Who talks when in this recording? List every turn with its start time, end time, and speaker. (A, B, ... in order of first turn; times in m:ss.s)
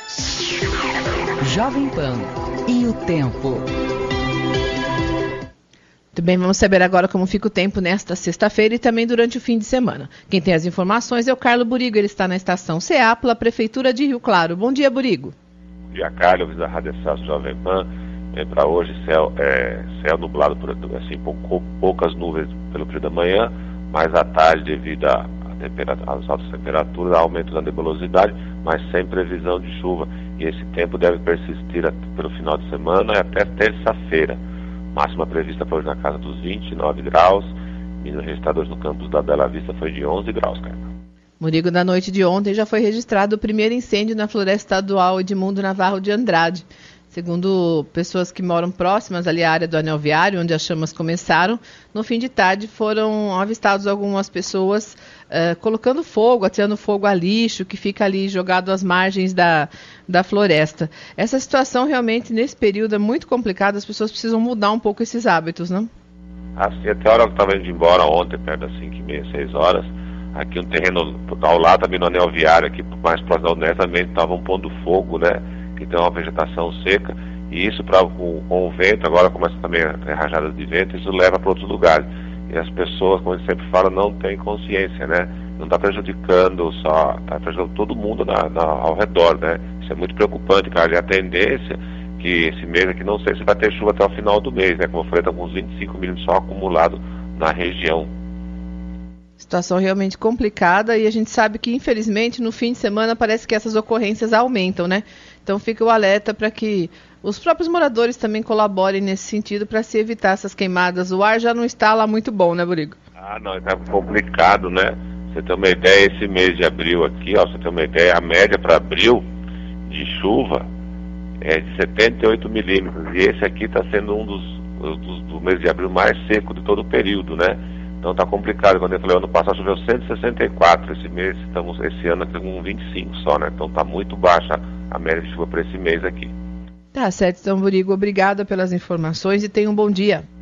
0:01.4-0:03.7 A
0:06.1-0:15.4 B
0:15.9-0:34.4 C
0:34.9-0:40.9 C
0:41.4-1:05.9 B
1:06.6-1:38.1 C
1:39.4-1:53.0 B
1:53.2-1:59.2 C
1:59.9-2:00.7 C
2:01.4-2:16.3 C
2:16.9-2:20.3 B